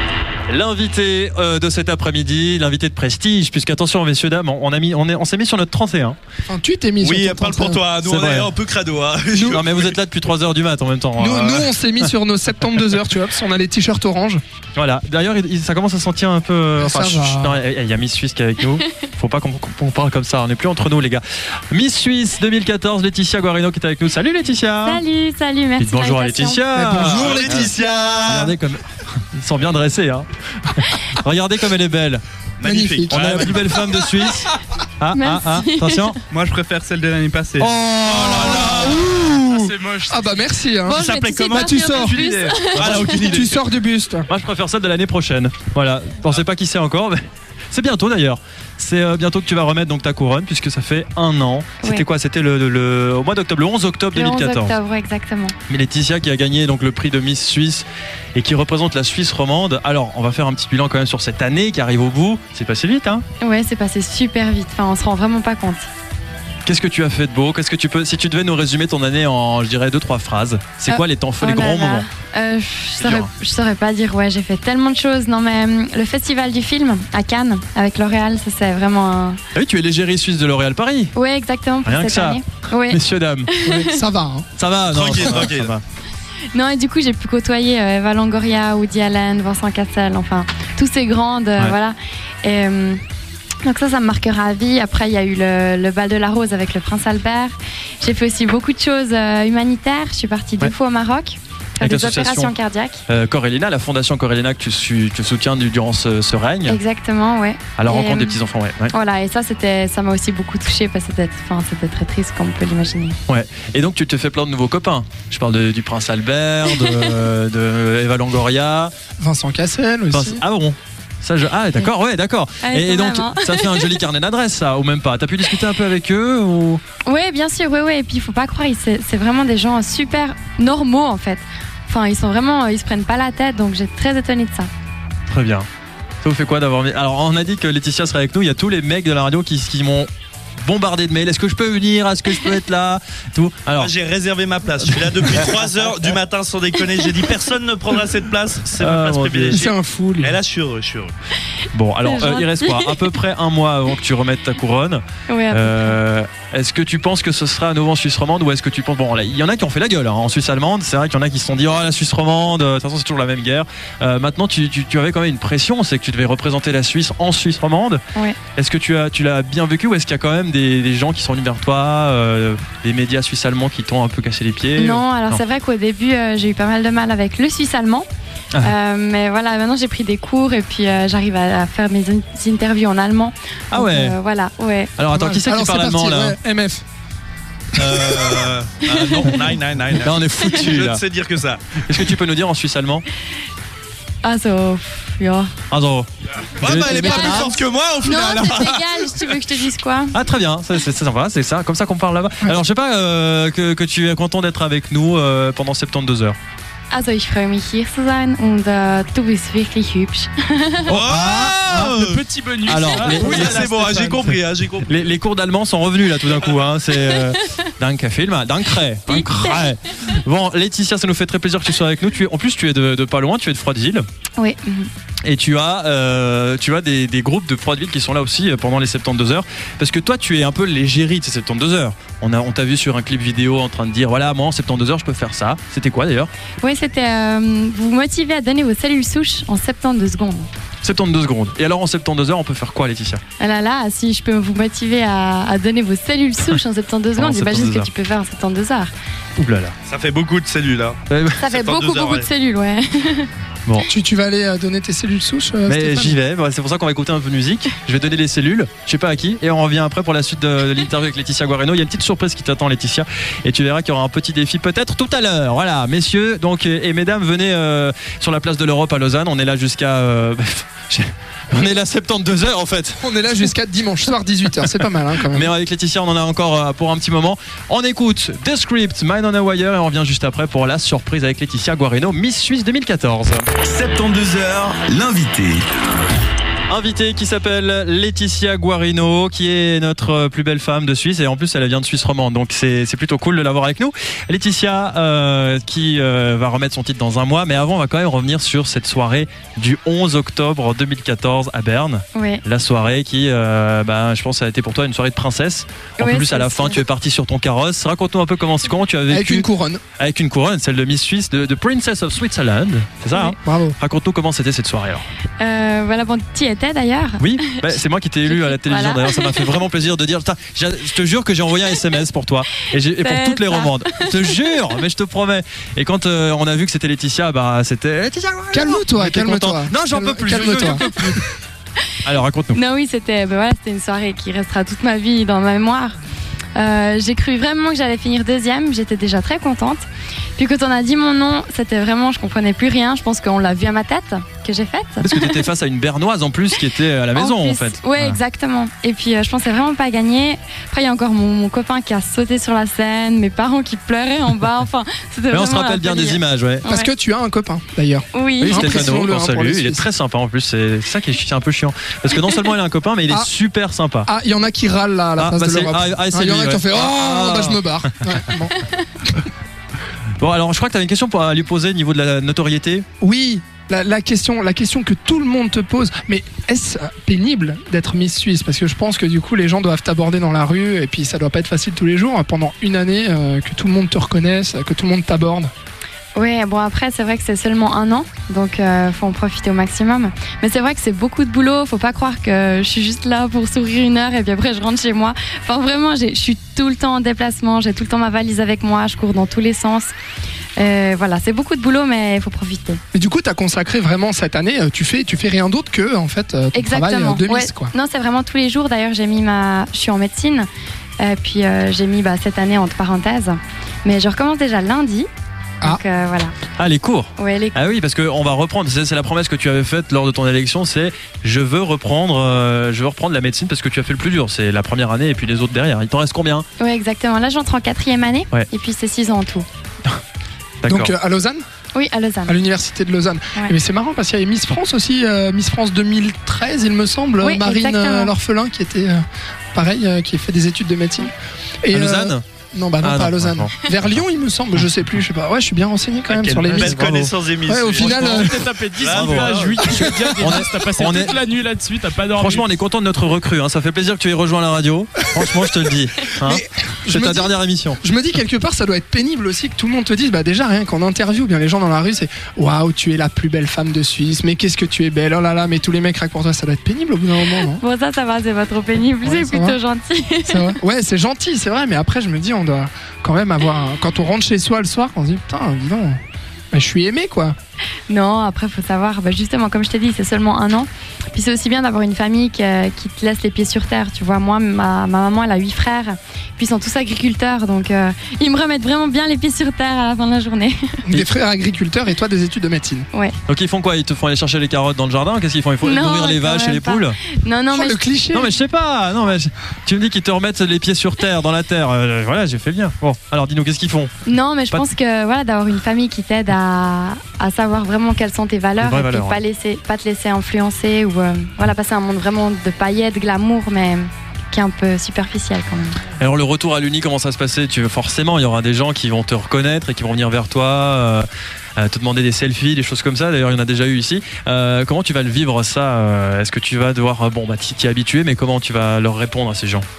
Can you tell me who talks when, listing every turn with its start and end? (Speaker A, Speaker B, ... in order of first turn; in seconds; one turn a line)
Speaker A: 0.5-6.2
Speaker B: 6.5-7.8
Speaker C: 7.0-9.9
Speaker A: 8.0-8.5
Speaker B: 9.3-9.6
Speaker A: 9.5-12.1
Speaker B: 11.2-14.4
Speaker A: 14.8-25.0
Speaker B: 16.8-17.6
Speaker D: 24.8-26.6
Speaker A: 25.8-27.7
Speaker B: 26.8-27.7
Speaker C: 27.0-28.5
Speaker A: 28.3-32.2
Speaker C: 32.6-34.5
Speaker B: 32.6-33.6
Speaker A: 33.1-34.5
Speaker A: 35.0-36.2
Speaker D: 35.1-36.2
Speaker C: 36.3-39.0
Speaker B: 37.6-42.2
Speaker E: 38.3-38.7
Speaker E: 39.5-40.4
Speaker D: 40.9-43.4
Speaker C: 40.9-43.6
Speaker A: 42.7-43.1
Speaker B: 43.2-44.3
Speaker A: 44.3-47.2
Speaker A: 47.7-54.8
Speaker D: 54.1-55.5
Speaker A: 55.7-63.2
Speaker D: 63.4-65.9
Speaker A: 66.7-72.1
Speaker D: 70.9-79.4
Speaker A: 73.0-73.3
Speaker A: 79.5-81.1
Speaker D: 81.2-84.0
Speaker A: 81.8-83.5
Speaker B: 83.6-84.5
Speaker A: 84.6-85.8
Speaker C: 84.9-85.7
Speaker B: 85.2-85.5
Speaker D: 86.5-93.0
Speaker D: 93.6-103.0
Speaker A: 101.8-102.5
Speaker A: 103.1-106.8
Speaker D: 106.7-113.2
Speaker A: 107.8-108.9
Speaker A: 113.3-118.9
Speaker B: 119.2-120.4
Speaker A: 120.1-126.8
Speaker D: 122.6-124.0
Speaker D: 127.0-134.7
Speaker A: 135.3-135.7
Speaker A: 136.2-140.1
Speaker A: 140.6-143.9
Speaker C: 143.7-151.2
Speaker A: 148.7-149.6
Speaker B: 149.5-150.4
Speaker A: 151.7-168.0
Speaker D: 152.0-153.1
Speaker D: 155.3-156.0
Speaker A: 168.5-175.4
Speaker D: 174.8-178.1
Speaker D: 178.6-184.9
Speaker A: 183.7-184.2
Speaker A: 185.0-186.4
Speaker B: 185.1-186.8
Speaker C: 187.7-191.8
Speaker B: 187.8-188.3
Speaker A: 190.0-191.0
Speaker A: 191.8-193.1
Speaker D: 194.2-195.5
Speaker A: 195.7-196.1
Speaker C: 196.6-199.2
Speaker A: 196.6-197.6
Speaker D: 196.8-200.2
Speaker A: 200.1-206.4
Speaker D: 206.9-211.0
Speaker C: 210.9-212.2
Speaker E: 211.1-214.4
Speaker A: 212.7-213.7
Speaker C: 213.3-215.2
Speaker A: 214.9-224.1
Speaker D: 217.2-217.5
Speaker D: 219.1-219.7
Speaker D: 224.4-224.9
Speaker A: 225.3-236.3
Speaker D: 236.6-240.5
Speaker A: 240.8-243.2
Speaker D: 243.4-248.9
Speaker A: 247.2-247.9
Speaker A: 249.4-249.7
Speaker C: 249.8-252.3
Speaker A: 251.1-251.5
Speaker D: 251.4-253.3
Speaker B: 253.9-256.2
Speaker A: 255.7-273.5
Speaker B: 273.0-275.5
Speaker A: 275.3-283.4
Speaker F: 283.6-285.7
Speaker A: 286.7-309.4
Speaker D: 302.1-302.4
Speaker D: 306.0-306.8
Speaker B: 309.1-309.8
Speaker A: 310.0-315.0
Speaker B: 313.4-313.8
Speaker D: 315.4-319.6
Speaker A: 317.2-331.2
Speaker D: 323.0-324.6
Speaker B: 328.5-330.9
Speaker A: 332.0-332.6
Speaker D: 332.5-336.0
Speaker D: 336.6-339.9
Speaker D: 340.4-345.5
Speaker A: 345.0-348.2
Speaker D: 347.1-356.9
Speaker A: 355.3-356.7
Speaker B: 356.7-359.9
Speaker D: 358.1-358.8
Speaker A: 358.4-364.1
Speaker B: 364.1-368.5
Speaker A: 365.2-367.6
Speaker A: 370.2-372.9
Speaker B: 373.0-385.5
Speaker D: 386.1-399.9
Speaker D: 400.6-402.8
Speaker B: 402.9-407.7
Speaker D: 406.6-410.5
Speaker D: 411.0-415.1
Speaker D: 415.6-416.4
Speaker A: 416.6-426.5
Speaker D: 417.2-417.7
Speaker D: 426.6-429.5
Speaker A: 430.6-430.9
Speaker B: 430.7-431.4
Speaker D: 431.7-432.4
Speaker B: 432.3-446.8
Speaker D: 437.2-438.1
Speaker A: 441.7-442.2
Speaker A: 442.8-443.6
Speaker C: 446.1-449.8
Speaker A: 446.5-447.1
Speaker B: 447.5-448.6
Speaker E: 447.7-452.5
Speaker A: 448.9-449.4
Speaker B: 449.7-450.4
Speaker A: 450.2-451.2
Speaker A: 452.2-457.8
Speaker B: 456.2-467.6
Speaker D: 467.4-470.6
Speaker B: 469.0-469.6
Speaker B: 470.3-476.0
Speaker B: 476.5-477.4
Speaker D: 477.9-490.8
Speaker B: 490.9-492.9
Speaker A: 493.3-497.0
Speaker D: 495.6-497.8
Speaker B: 497.5-498.3
Speaker A: 498.1-503.9
Speaker D: 504.1-515.8
Speaker A: 508.6-509.2
Speaker A: 516.0-529.6